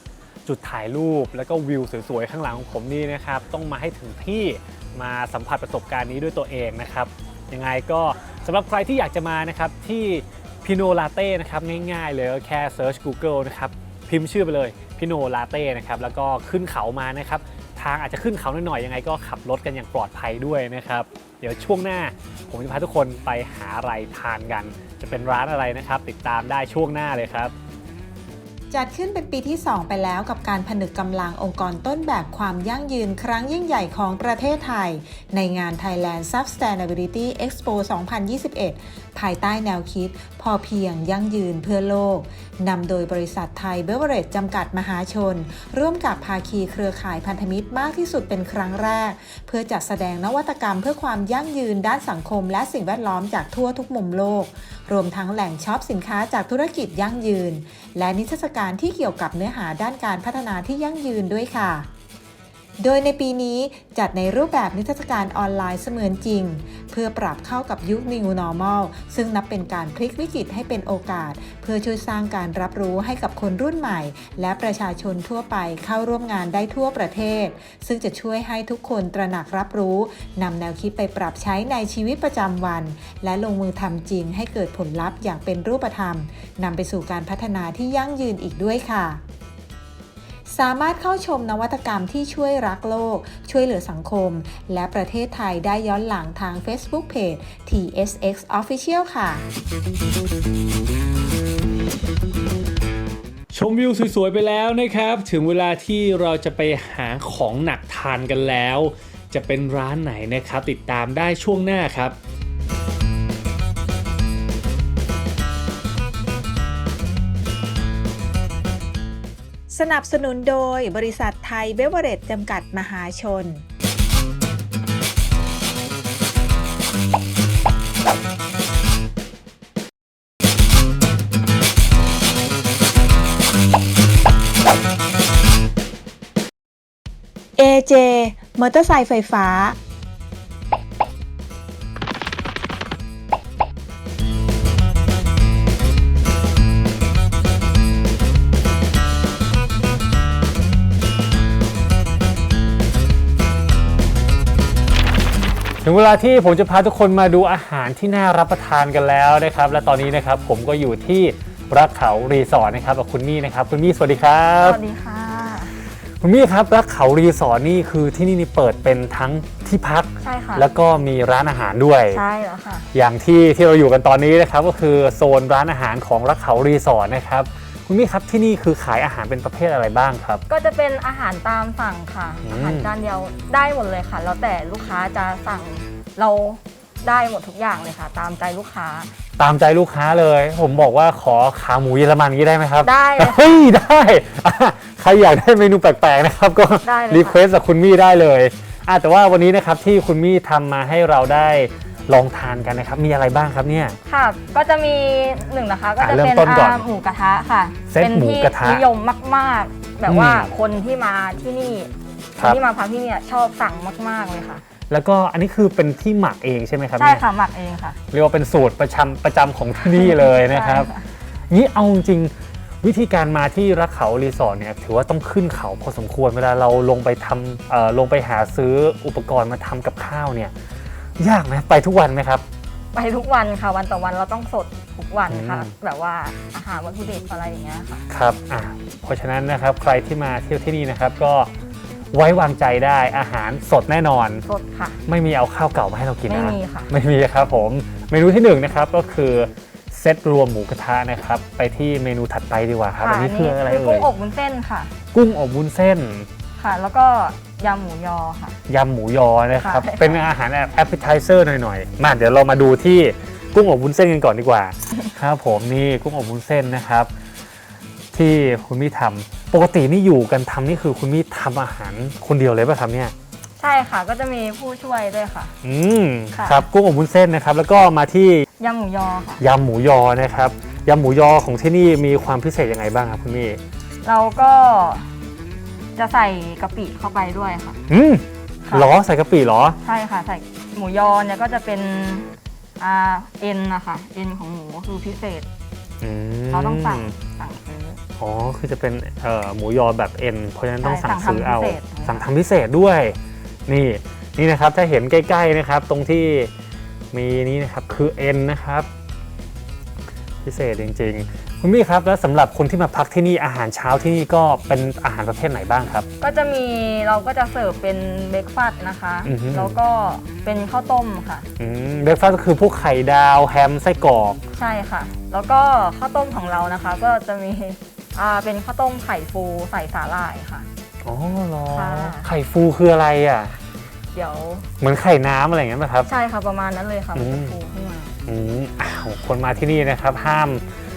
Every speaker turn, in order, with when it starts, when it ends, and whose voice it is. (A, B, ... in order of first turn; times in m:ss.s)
0:00.5-0:27.5 A
0:28.7-1:01.9 B
1:02.8-1:29.2 B
1:30.5-1:39.5 B
1:43.5-1:52.2 A
1:59.7-2:03.6 B
2:17.6-2:19.8 B
2:35.8-2:44.8 A
2:44.6-2:45.8 C
2:46.2-2:52.2 A
2:50.2-2:50.7 C
2:52.1-2:52.9 C
2:52.9-3:00.4 A
3:00.5-3:09.1 C
3:02.5-3:02.9 A
3:09.4-3:24.0 A
3:12.8-3:13.6 C
3:16.8-3:17.4 C
3:24.1-3:34.6 C
3:26.0-3:26.8 A
3:27.9-3:28.8 A
3:30.1-3:30.5 A
3:34.9-3:37.2 A
3:37.0-3:38.0 C
3:38.1-3:40.9 A
3:39.9-3:41.0 C
3:41.5-3:50.5 A
3:51.2-3:52.4 A
3:52.9-3:58.1 C
3:55.3-3:55.7 A
3:58.1-4:01.5 A
4:02.1-4:04.4 A
4:04.4-4:05.0 C
4:05.1-4:14.1 A
4:06.3-4:06.9 C
4:13.0-4:14.9 C
4:15.1-4:16.3 A
4:16.6-4:18.6 C
4:18.7-4:27.1 A
4:19.6-4:20.2 C
4:28.1-4:33.1 A
4:33.6-4:35.5 C
4:35.6-4:38.4 A
4:36.3-4:36.7 C
4:38.6-4:39.4 C
4:39.4-4:43.6 A
4:44.0-4:45.1 C
4:46.0-4:47.8 C
4:47.9-4:49.8 A
4:48.7-4:48.9 C
4:49.8-4:52.3 C
4:52.8-4:55.5 C
4:56.0-4:57.1 A
4:56.5-4:58.0 C
4:58.2-5:03.2 A
5:00.8-5:02.2 C
5:03.7-5:06.5 A
5:07.1-5:08.9 A
5:10.4-5:16.1 A
5:16.2-5:21.5 C
5:19.3-5:19.8 A
5:21.6-5:24.4 A
5:24.5-5:30.7 C
5:31.0-5:33.6 A
5:31.7-5:32.3 C
5:34.1-5:34.7 C
5:34.8-5:36.1 A
5:36.0-5:38.1 C
5:37.2-5:37.6 A
5:38.3-5:40.6 A